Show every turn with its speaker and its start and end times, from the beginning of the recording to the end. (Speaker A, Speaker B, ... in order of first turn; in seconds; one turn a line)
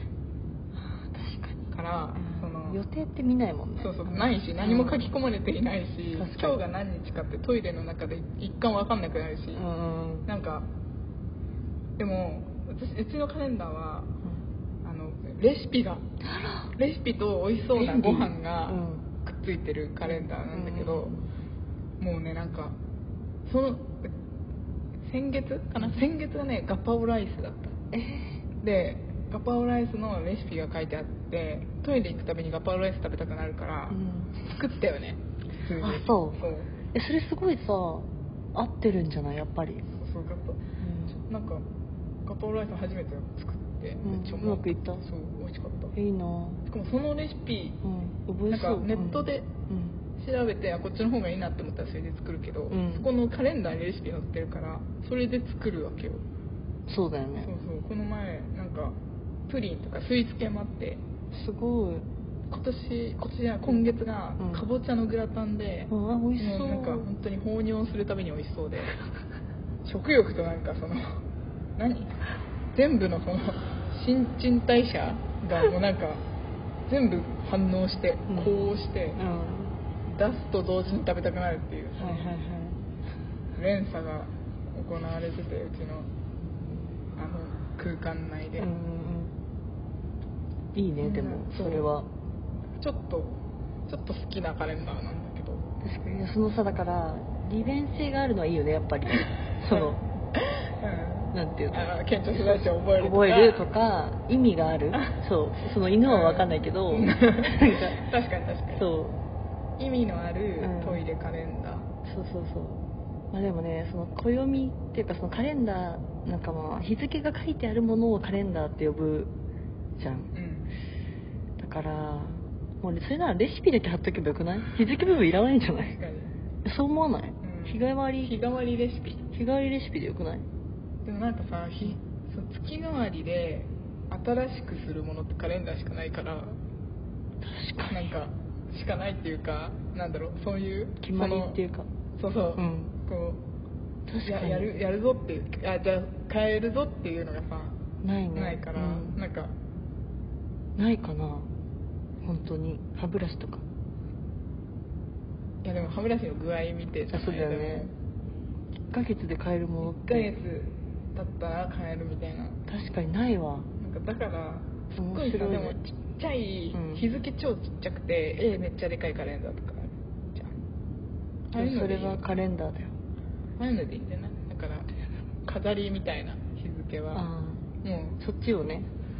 Speaker A: 0.7-5.1
Speaker B: 1.7-2.8
Speaker B: 3.8-9.7
Speaker A: 6.1-6.6
Speaker A: 9.5-10.3
Speaker B: 10.2-10.7
Speaker B: 12.0-14.1
Speaker B: 14.8-16.1
Speaker A: 16.2-16.7
Speaker B: 16.7-21.1
Speaker A: 17.7-19.1
Speaker A: 20.0-21.3
Speaker B: 22.0-22.8
Speaker B: 23.4-24.1
Speaker B: 25.1-27.8
Speaker A: 27.9-28.4
Speaker B: 28.6-36.7
Speaker A: 33.9-34.5
Speaker A: 35.8-39.9
Speaker B: 40.0-40.6
Speaker A: 40.8-41.2
Speaker B: 41.2-41.6
Speaker B: 42.2-45.9
Speaker A: 44.0-45.0
Speaker A: 45.9-46.6
Speaker B: 46.6-47.8
Speaker A: 47.8-50.0
Speaker B: 48.5-49.5
Speaker B: 50.1-56.2
Speaker A: 52.7-53.1
Speaker A: 56.9-57.5
Speaker B: 57.4-59.0
Speaker B: 59.5-61.0
Speaker A: 61.3-62.1
Speaker B: 62.5-68.9
Speaker A: 64.4-64.6
Speaker A: 65.9-67.1
Speaker B: 69.8-71.2
Speaker B: 71.8-72.1
Speaker B: 72.7-76.2
Speaker B: 76.9-79.2
Speaker A: 78.3-79.8
Speaker B: 80.1-82.3
Speaker A: 82.0-82.8
Speaker B: 83.5-86.1
Speaker A: 86.5-86.9
Speaker B: 87.1-88.7
Speaker A: 88.6-89.3
Speaker A: 90.7-92.1
Speaker B: 91.0-91.9
Speaker B: 92.8-95.6
Speaker A: 95.8-100.0
Speaker B: 99.7-103.7
Speaker A: 101.3-108.0
Speaker B: 106.0-108.8
Speaker A: 108.7-109.2
Speaker B: 109.8-111.9
Speaker A: 110.6-111.0
Speaker A: 112.0-119.3
Speaker A: 120.0-120.3
Speaker B: 120.3-120.7
Speaker A: 121.6-126.0
Speaker B: 125.8-126.3
Speaker A: 126.6-128.4
Speaker B: 127.4-129.3
Speaker A: 129.3-130.4
Speaker B: 131.0-136.6
Speaker A: 137.4-138.1
Speaker B: 137.9-141.6
Speaker A: 141.0-141.9
Speaker B: 142.2-143.4
Speaker A: 142.6-142.9
Speaker A: 144.1-144.7
Speaker B: 144.2-147.8
Speaker A: 148.0-149.2
Speaker B: 148.3-149.5
Speaker A: 150.8-151.5
Speaker A: 152.2-153.6
Speaker B: 155.6-157.9
Speaker A: 157.1-157.9
Speaker A: 158.9-160.3
Speaker B: 159.8-162.6
Speaker A: 162.7-163.7
Speaker B: 163.8-170.6
Speaker A: 164.9-165.8
Speaker A: 166.7-167.0
Speaker A: 171.5-172.9
Speaker B: 171.5-172.2
Speaker B: 173.6-174.9
Speaker B: 175.4-177.2
Speaker A: 177.1-177.7
Speaker B: 177.8-178.2
Speaker A: 178.2-178.9